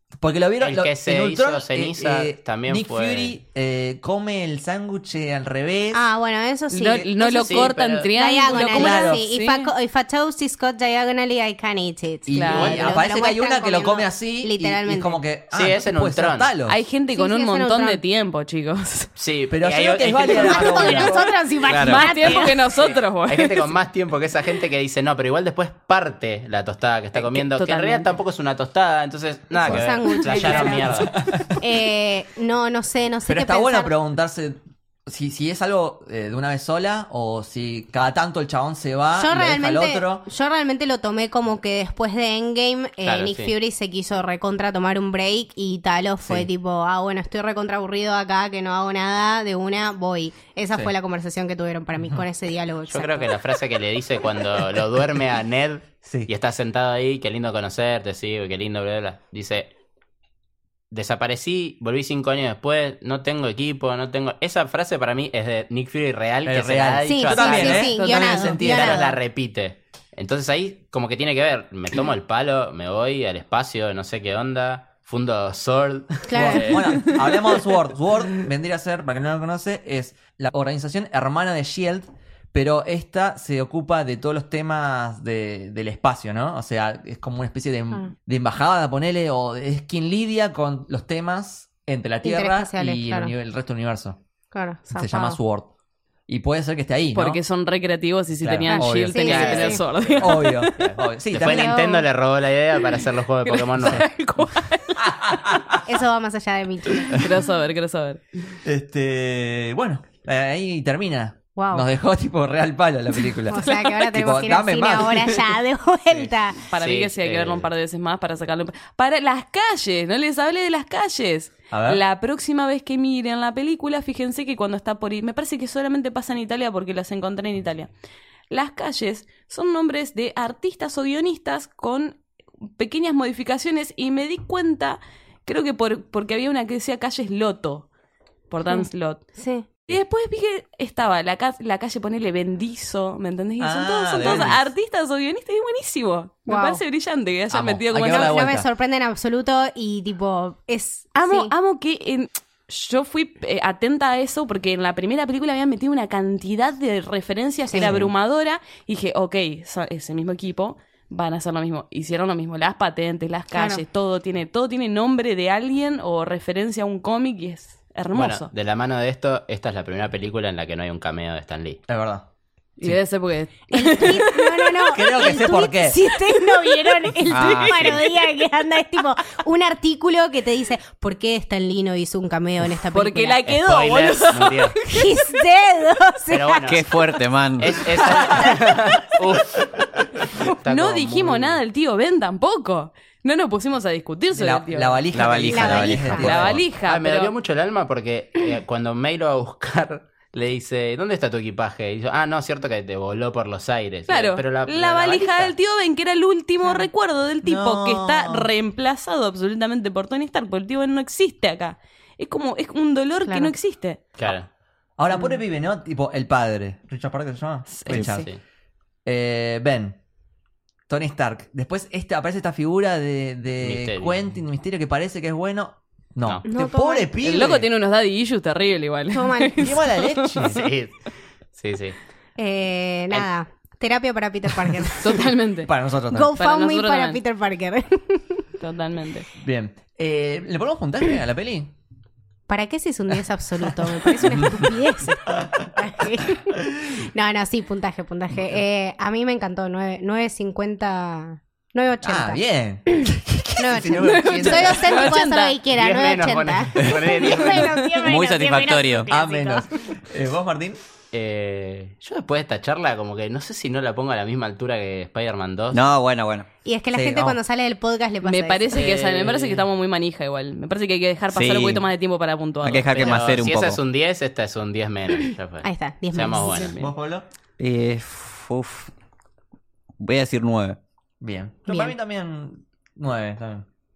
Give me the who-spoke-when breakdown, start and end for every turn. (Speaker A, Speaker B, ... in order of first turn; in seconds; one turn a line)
Speaker A: 0.2-6.0
Speaker B: 0.6-3.4
Speaker C: 5.9-15.2
Speaker D: 6.7-9.7
Speaker B: 7.2-8.1
Speaker A: 8.5-9.2
Speaker A: 12.3-16.8
Speaker D: 12.3-12.9
Speaker B: 12.5-12.9
Speaker B: 15.5-16.5
Speaker D: 16.7-19.1
Speaker C: 17.1-18.0
Speaker B: 19.2-21.3
Speaker A: 19.5-21.3
Speaker C: 20.2-22.6
Speaker E: 21.6-22.3
Speaker D: 21.8-23.6
Speaker B: 22.6-31.2
Speaker D: 27.1-28.1
Speaker C: 29.5-33.9
Speaker D: 30.4-30.8
Speaker A: 30.5-31.6
Speaker A: 33.2-40.3
Speaker C: 39.1-53.3
Speaker B: 43.0-43.5
Speaker A: 46.2-46.5
Speaker B: 52.9-59.7
Speaker A: 56.0-56.3
Speaker B: 60.9-77.1
Speaker A: 66.4-69.0
Speaker C: 67.0-69.2
Speaker D: 68.0-68.4
Speaker C: 76.3-76.8
Speaker A: 76.3-94.2
Speaker C: 92.2-93.3
Speaker C: 94.5-95.4
Speaker A: 94.9-95.7
Speaker A: 96.3-97.4
Speaker D: 97.1-100.7
Speaker A: 98.4-99.4
Speaker C: 98.7-99.8
Speaker B: 99.1-104.0
Speaker A: 100.2-101.8
Speaker C: 101.4-102.0
Speaker D: 103.4-105.0
Speaker A: 105.0-105.9
Speaker C: 105.8-107.2
Speaker D: 107.1-108.2
Speaker A: 108.6-115.5
Speaker C: 111.5-111.8
Speaker C: 113.5-116.6
Speaker D: 113.6-113.9
Speaker D: 116.7-127.9
Speaker B: 116.7-117.7
Speaker A: 121.7-122.0
Speaker D: 128.5-132.2
Speaker D: 132.8-137.9
Speaker D: 138.5-139.2
Speaker C: 138.7-139.7
Speaker D: 139.8-148.3
Speaker A: 143.6-144.7
Speaker C: 144.2-144.5
Speaker C: 146.5-146.8
Speaker A: 147.5-148.7
Speaker C: 148.0-151.5
Speaker D: 151.1-168.5
Speaker C: 157.7-158.0
Speaker A: 157.8-158.1
Speaker C: 163.5-163.8
Speaker B: 168.1-171.8
Speaker A: 171.9-172.2
Speaker D: 172.8-174.8
Speaker C: 173.7-183.6
Speaker A: 174.9-176.0
Speaker E: 177.3-177.9
Speaker B: 177.7-178.0
Speaker D: 182.9-185.1
Speaker B: 183.6-184.8
Speaker C: 184.9-186.7
Speaker B: 186.3-187.0
Speaker E: 186.7-187.8
Speaker B: 187.6-191.6
Speaker A: 188.1-188.5
Speaker D: 190.6-195.0
Speaker A: 194.3-196.6
Speaker E: 195.1-196.4
Speaker C: 195.5-196.3
Speaker D: 196.1-197.3
Speaker B: 196.8-205.5
Speaker D: 204.1-214.0
Speaker C: 206.6-206.9
Speaker A: 207.4-208.5
Speaker C: 213.2-213.5
Speaker B: 214.2-214.5
Speaker A: 215.0-218.3
Speaker D: 217.7-218.2
Speaker B: 217.9-218.4
Speaker E: 217.9-218.2
Speaker A: 219.0-220.0
Speaker A: 220.9-227.7
Speaker B: 223.6-224.2
Speaker C: 226.4-227.2
Speaker D: 227.2-230.4
Speaker C: 229.1-229.8
Speaker A: 229.6-230.7
Speaker B: 230.4-232.0
Speaker C: 232.4-235.3
Speaker D: 234.9-235.7
Speaker A: 235.6-236.3
Speaker C: 236.1-238.4
Speaker D: 236.4-237.2
Speaker D: 238.6-239.2
Speaker A: 239.4-241.7
Speaker C: 242.5-259.7
Speaker A: 244.2-244.7
Speaker A: 252.0-255.2
Speaker D: 254.0-255.6
Speaker B: 255.7-257.9
Speaker E: 258.0-259.1
Speaker A: 259.1-260.8
Speaker B: 261.1-265.8
Speaker E: 265.7-266.5
Speaker C: 266.6-268.8
Speaker A: 266.9-267.4
Speaker D: 268.2-273.2
Speaker B: 268.7-269.6
Speaker E: 271.3-271.8
Speaker E: 272.6-273.8
Speaker B: 272.9-276.8
Speaker C: 275.6-276.5
Speaker D: 276.4-276.9
Speaker A: 276.8-277.2
Speaker E: 277.6-278.9
Speaker E: 280.0-280.8
Speaker A: 281.2-283.6
Speaker C: 281.7-281.9